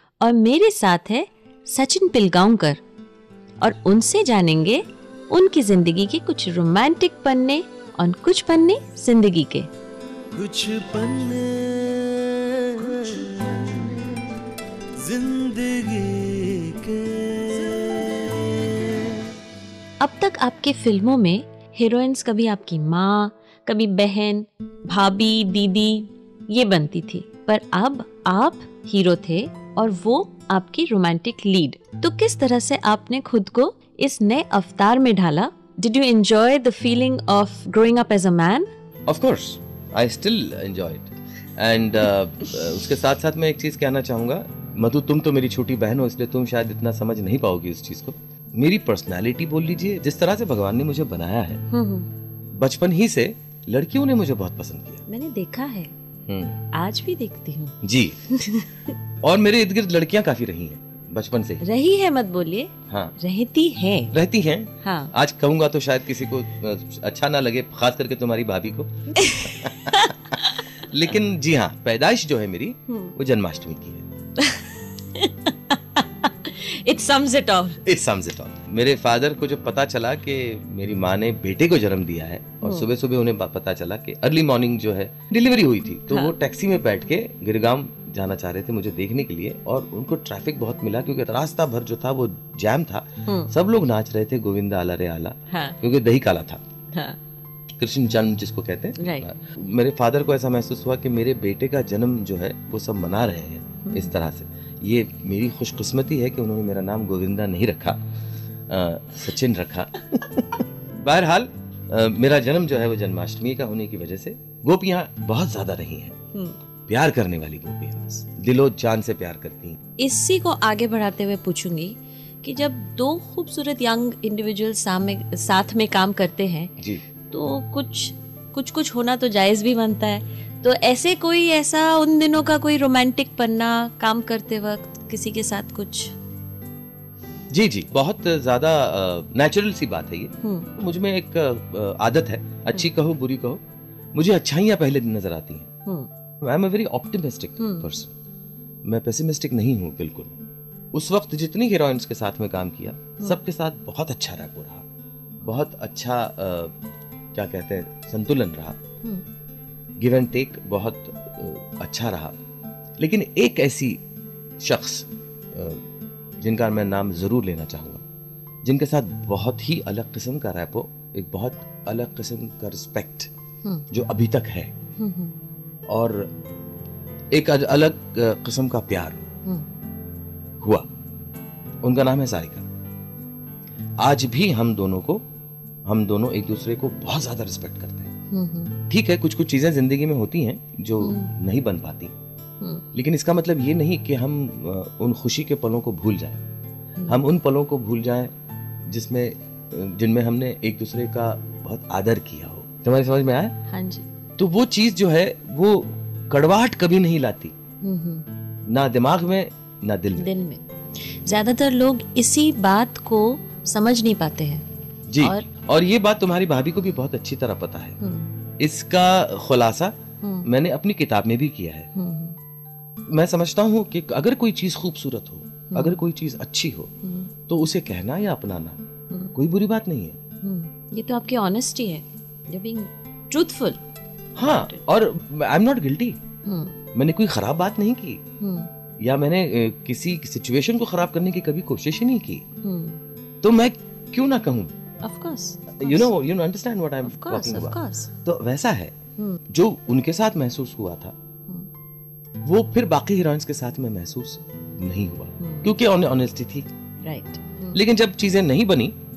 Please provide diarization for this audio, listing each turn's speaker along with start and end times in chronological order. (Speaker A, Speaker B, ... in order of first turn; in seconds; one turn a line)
Speaker A: 0.2-2.8
Speaker A: 3.6-9.7
Speaker B: 10.3-14.2
Speaker B: 15.0-19.2
Speaker A: 20.0-38.7
Speaker C: 39.1-51.6
Speaker A: 51.7-52.1
Speaker C: 52.5-55.0
Speaker A: 55.1-55.9
Speaker C: 56.3-56.6
Speaker A: 56.7-59.0
Speaker C: 57.8-58.2
Speaker C: 59.2-61.6
Speaker A: 61.6-64.1
Speaker C: 62.9-63.1
Speaker C: 64.1-74.1
Speaker A: 64.8-65.1
Speaker A: 69.1-70.9
Speaker A: 74.4-77.8
Speaker C: 77.8-96.6
Speaker A: 82.6-82.9
Speaker A: 86.1-86.4
Speaker A: 95.5-95.8
Speaker A: 96.9-97.2
Speaker C: 97.8-108.0
Speaker A: 99.0-99.3
Speaker A: 103.8-104.1
Speaker C: 108.7-116.2
Speaker C: 116.9-119.8
Speaker A: 120.0-126.8
Speaker C: 126.8-127.0
Speaker A: 127.3-136.2
Speaker C: 137.5-143.6
Speaker A: 140.4-140.7
Speaker C: 144.1-145.7
Speaker C: 146.4-148.1
Speaker A: 147.6-147.9
Speaker C: 148.8-150.4
Speaker C: 150.9-154.9
Speaker C: 155.4-156.8
Speaker C: 157.3-158.8
Speaker C: 160.0-162.4
Speaker C: 163.0-164.0
Speaker C: 164.6-165.8
Speaker C: 166.4-168.0
Speaker C: 168.6-173.3
Speaker C: 173.9-174.7
Speaker A: 175.0-175.4
Speaker C: 175.9-176.3
Speaker C: 177.3-179.3
Speaker C: 180.6-180.9
Speaker C: 181.8-182.7
Speaker C: 184.0-185.2
Speaker C: 185.9-188.1
Speaker A: 188.3-188.8
Speaker C: 188.9-192.1
Speaker A: 191.0-191.3
Speaker C: 192.9-196.4
Speaker A: 197.0-197.2
Speaker C: 197.1-198.3
Speaker C: 198.9-203.6
Speaker A: 203.7-204.1
Speaker C: 204.4-207.5
Speaker A: 207.8-208.3
Speaker C: 208.7-210.3
Speaker A: 210.2-214.7
Speaker C: 215.1-218.0
Speaker A: 215.2-215.5
Speaker A: 218.0-218.3
Speaker C: 218.6-221.9
Speaker A: 220.2-220.5
Speaker A: 221.9-222.4
Speaker C: 223.1-226.9
Speaker A: 227.0-227.3
Speaker C: 227.5-228.8
Speaker C: 229.3-230.2
Speaker A: 230.4-233.8
Speaker C: 234.4-236.2
Speaker A: 234.4-234.8
Speaker A: 236.5-236.8
Speaker C: 236.9-238.2
Speaker A: 238.4-238.7
Speaker C: 239.0-242.4
Speaker A: 242.6-243.0
Speaker C: 243.4-244.7
Speaker A: 245.0-246.1
Speaker C: 245.8-248.9
Speaker A: 247.0-248.1
Speaker C: 249.5-251.1
Speaker C: 252.4-256.7
Speaker A: 255.4-255.7
Speaker A: 257.0-257.8
Speaker C: 257.7-258.9